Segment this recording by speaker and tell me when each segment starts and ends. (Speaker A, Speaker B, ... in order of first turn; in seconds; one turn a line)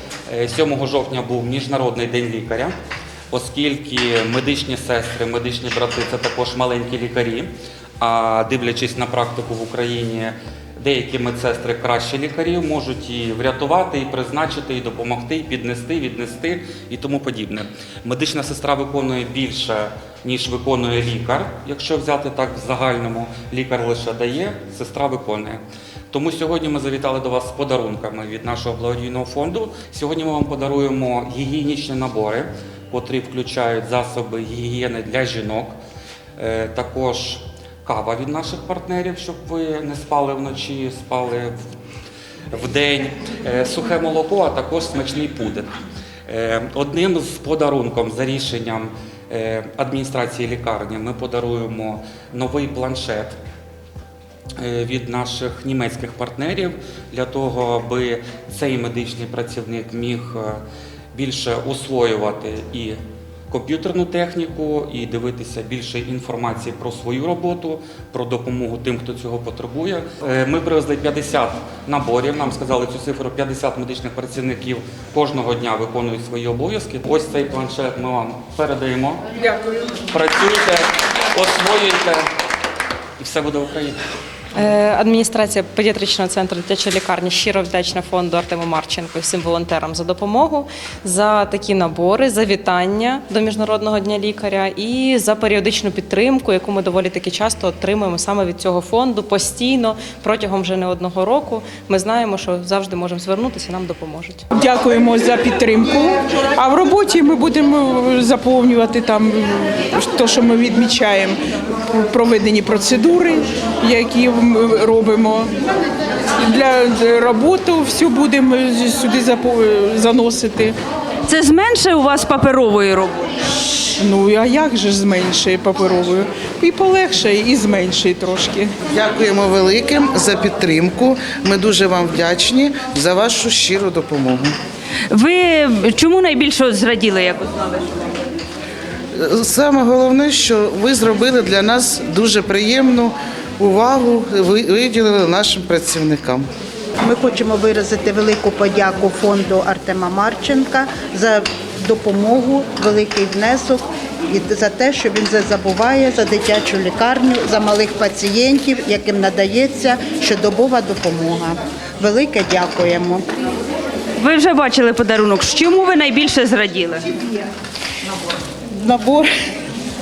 Speaker A: 0.3-2.7
Speaker A: 3.3-7.5
Speaker A: 8.0-35.7
Speaker A: 36.4-41.5
Speaker A: 42.5-45.7
Speaker A: 46.3-53.4
Speaker A: 54.6-60.6
Speaker A: 61.1-63.0
Speaker A: 63.5-79.2
Speaker A: 80.1-82.2
Speaker A: 83.2-84.0
Speaker B: 84.5-104.4
Speaker C: 104.5-111.4
Speaker C: 111.9-115.5
Speaker C: 116.4-120.8
Speaker D: 121.2-123.3
Speaker C: 124.0-128.7
Speaker E: 128.9-134.5
Speaker D: 135.1-137.9
Speaker E: 139.1-146.5
Speaker F: 147.0-163.2
Speaker D: 164.2-167.1
Speaker F: 168.7-169.3